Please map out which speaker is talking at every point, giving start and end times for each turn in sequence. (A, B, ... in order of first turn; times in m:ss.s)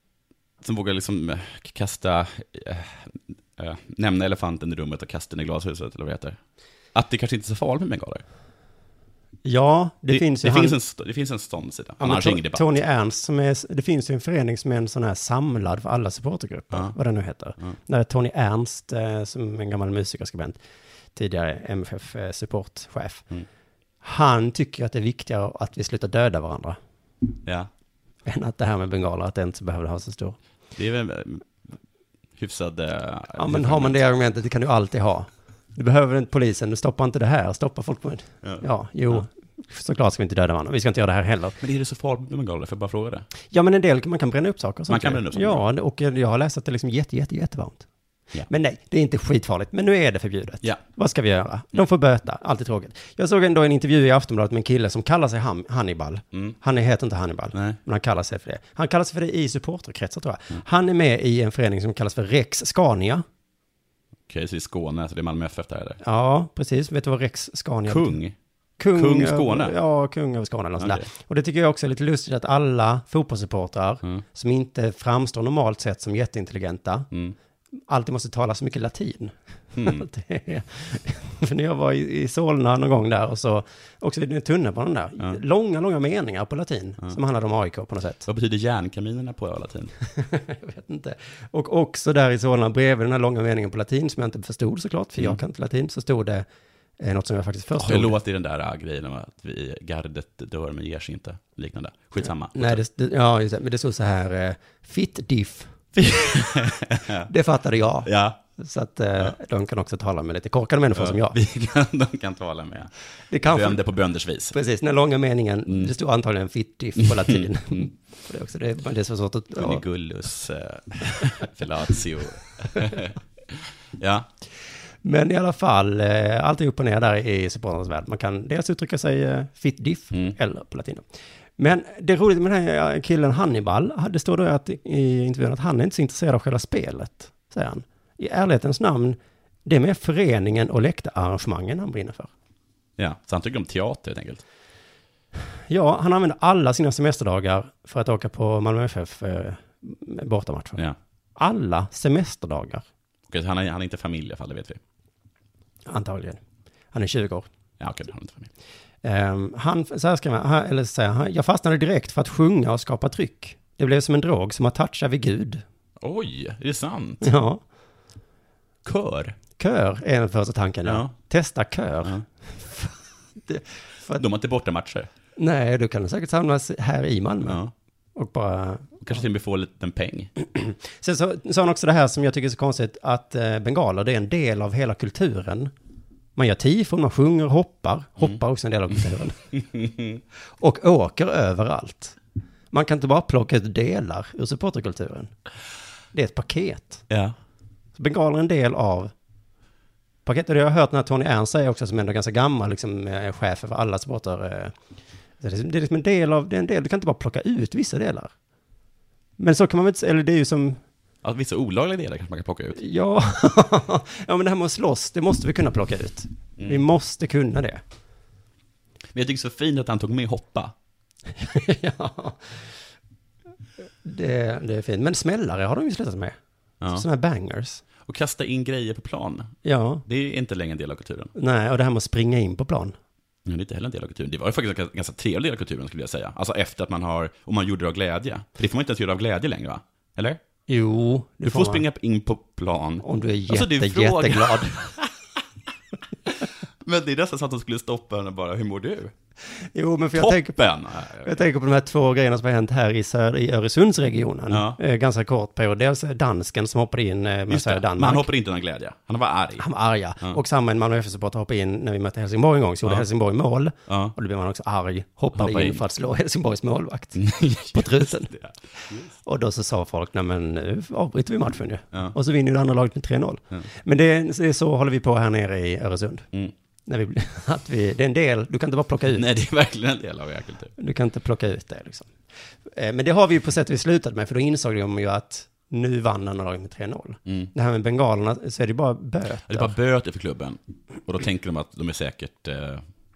0:00.6-0:06.4 A
0:06.9-0:08.2 A
0:09.4-0:10.8 B
0:10.1-0:12.7 A
0:12.0-0:20.6 B
0:21.2-0:23.3 B
0:24.0-0:26.8 B
0:27.4-0:27.7 A
0:28.2-0:30.4 B
0:30.8-0:31.8 A
0:32.4-0:34.0 A
0:33.4-0:41.6 B
0:38.4-0:39.2 A
0:41.6-0:43.3 A
0:43.5-0:47.9 B
0:44.9-0:45.6 A
0:48.5-1:03.2 B
0:57.5-0:57.8 A
1:04.3-1:06.0 A
1:06.0-1:08.2 B
1:07.9-1:08.4 A
1:08.8-1:17.1 B
1:09.0-1:09.7 A
1:10.8-1:11.1 A
1:17.1-1:17.4 A
1:17.9-1:28.3 B
1:19.8-1:20.0 A
1:28.3-1:29.9 A
1:30.2-1:36.5 B
1:37.0-1:38.1 B
1:37.8-1:42.8 A
1:42.5-1:45.8 B
1:46.0-1:47.3 A
1:47.3-1:51.4 B
1:48.0-1:48.4 A
1:50.9-1:52.9 A
1:53.3-1:53.8 B
1:53.4-1:54.6 A
1:54.5-1:59.8 B
1:55.7-1:55.9 A
1:57.0-1:57.9 A
1:59.5-2:04.3 A
2:05.0-2:11.0 B
2:11.6-2:22.3 B
2:23.0-2:24.4 A
2:25.7-2:30.8 B
2:31.4-2:32.8 B
2:33.3-2:34.8 A
2:35.9-2:36.4 B
2:36.9-2:37.5 B
2:37.8-2:38.5 A
2:39.0-2:45.6 B
2:46.0-2:47.3 A
2:47.2-2:47.6 B
2:48.8-2:49.4 A
2:49.6-2:52.9 B
2:50.8-2:51.1 A
2:53.5-2:54.2 B
2:54.1-2:55.1 A
2:55.4-2:57.6 B
2:57.4-2:57.7 A
2:58.2-2:59.0 B
2:59.0-3:00.3 A
3:00.4-3:05.7 B
3:06.4-3:09.5 B
3:09.5-3:10.2 A
3:10.6-3:12.2 B
3:12.7-3:15.3 B
3:16.1-3:17.0 B
3:17.1-3:17.4 A
3:18.0-3:19.1 B
3:20.3-3:24.8 B
3:25.4-3:28.3 B
3:29.4-3:30.8 B
3:31.2-3:32.8 A
3:32.8-3:37.8 B
3:36.6-3:36.8 A
3:39.1-3:40.7 A
3:41.4-3:42.6 B
3:44.0-3:46.4 B
3:46.8-3:47.1 A
3:46.9-3:47.8 B
3:48.0-3:49.6 A
3:49.6-3:50.0 B
3:50.1-3:51.3 A
3:51.4-3:52.9 B
3:53.4-4:00.4 A
4:00.7-4:01.8 B
4:01.4-4:05.1 A
4:03.0-4:04.8 B
4:06.3-4:09.1 A
4:09.5-4:10.6 B
4:10.1-4:11.4 A
4:11.2-4:18.3 B
4:14.5-4:14.8 A
4:17.5-4:19.6 A
4:19.6-4:28.3 B
4:23.9-4:24.2 A
4:25.4-4:25.8 A
4:27.2-4:29.1 A
4:29.2-4:36.3 B
4:36.9-4:39.2 B
4:39.1-4:40.7 A
4:40.8-4:42.1 B
4:42.7-4:49.7 B
4:49.5-4:52.8 A